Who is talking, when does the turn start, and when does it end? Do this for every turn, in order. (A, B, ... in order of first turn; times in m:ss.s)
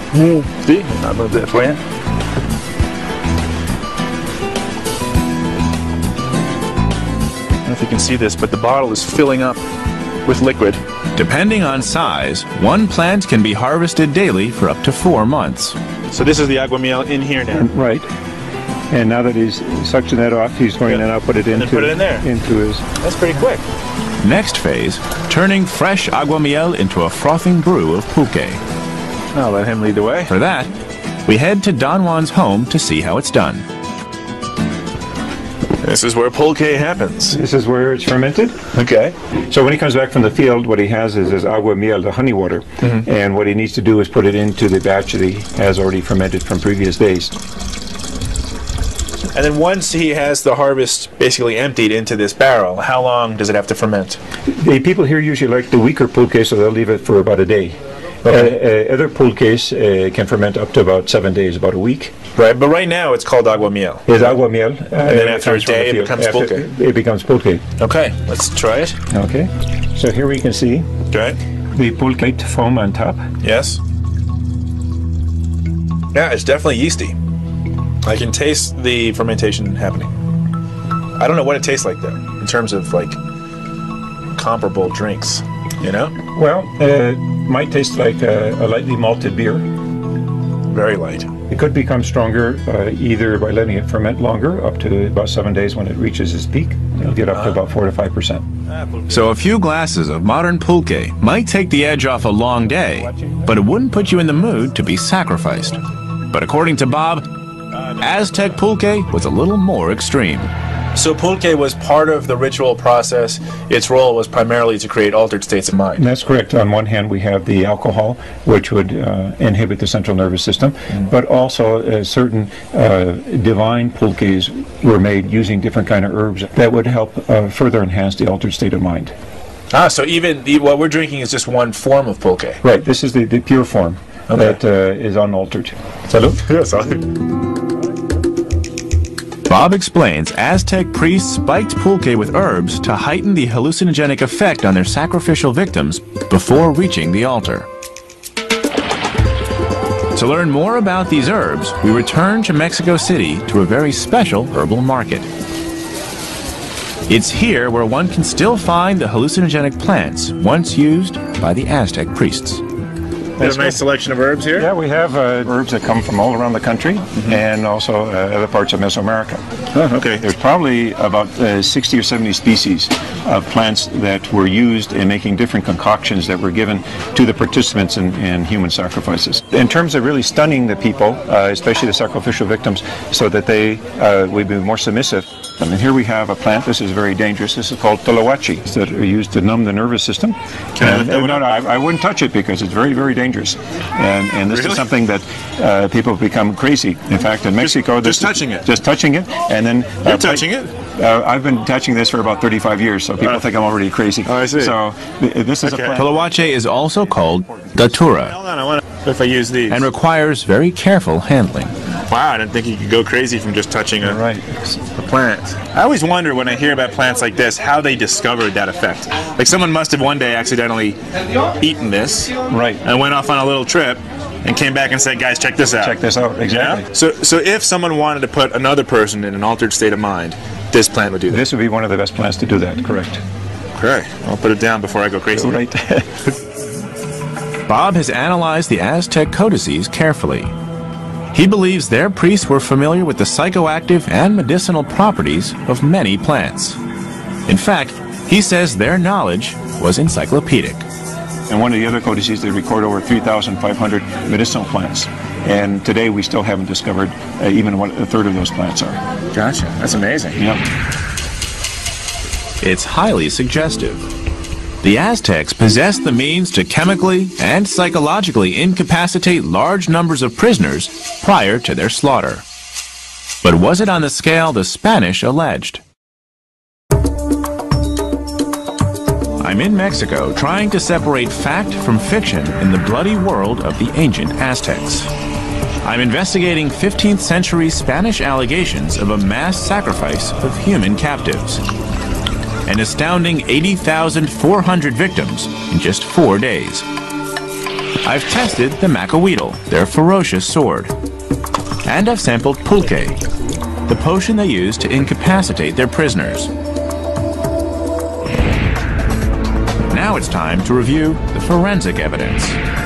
0:00.1-0:01.8 A
0:07.6-0:09.6 A
0:10.2-0:10.8 A
0:11.1-0:15.8 B
0:16.1-0:17.7 A
0:17.5-0:18.1 C
0:18.9-0:22.8 C
0:20.8-0:22.2 A
0:23.0-0:23.6 A
0:24.2-0:28.6 B
0:29.3-0:30.3 A
0:30.3-0:30.7 B
0:31.2-0:33.6 B
0:35.8-0:37.4 A
0:37.3-0:38.6 C
0:38.7-0:39.1 A
0:39.5-0:47.3 C
0:49.3-0:54.2 A
0:54.5-1:02.2 C
1:02.3-1:04.4 A
1:04.1-1:07.6 C
1:05.0-1:06.7 A
1:07.8-1:09.0 A
1:09.1-1:10.9 C
1:11.1-1:11.4 A
1:11.7-1:13.2 C
1:13.4-1:13.8 A
1:16.1-1:17.2 A
1:18.0-1:20.1 A
1:21.2-1:23.2 A
1:24.4-1:26.1 A
1:26.3-1:29.6 C
1:30.7-1:31.3 A
1:31.5-1:38.4 C
1:37.3-1:37.6 A
1:39.1-1:45.8 B
1:43.0-1:43.3 A
1:46.3-1:47.2 B
1:48.0-1:50.5 B
1:50.9-1:56.0 A
1:56.0-2:09.1 C
2:09.7-2:12.6 A
2:12.6-2:15.8 C
2:14.3-2:14.6 A
2:16.1-2:17.0 A
2:19.5-2:27.7 B
2:30.1-2:35.3 B
2:37.1-2:42.6 B
2:43.4-2:43.8 C
2:43.4-2:44.7 A
2:44.5-2:49.4 C
2:49.8-2:50.2 A
2:50.1-3:27.8 C
3:10.8-3:11.7 A
3:14.5-3:14.9 A
3:17.5-3:18.7 A
3:20.0-3:20.7 A
3:23.2-3:23.4 A
3:24.2-3:24.8 A
3:25.6-3:26.1 A
3:25.9-3:28.4 B
3:28.1-3:29.9 A
3:29.7-3:31.7 B
3:32.0-3:34.2 A
3:34.0-3:34.8 C
3:34.9-3:41.0 A
3:41.6-3:51.4 A
3:42.4-3:42.8 C
3:45.8-3:46.8 C
3:51.3-3:53.2 C
3:53.8-3:55.6 A
3:55.4-3:56.1 C
3:57.7-4:00.5 B
4:01.3-4:06.8 B
4:07.5-4:10.8 B
4:11.5-4:19.0 C
4:19.3-4:20.4 A
4:22.6-4:24.1 B
4:24.8-4:32.4 B
4:33.4-4:35.8 B
4:39.4-4:45.1 B
4:45.8-4:51.6 B
4:52.6-4:56.8 B
4:58.0-5:00.9 B
5:01.8-5:03.2 B
5:03.8-5:06.5 B
5:09.9-5:12.6 B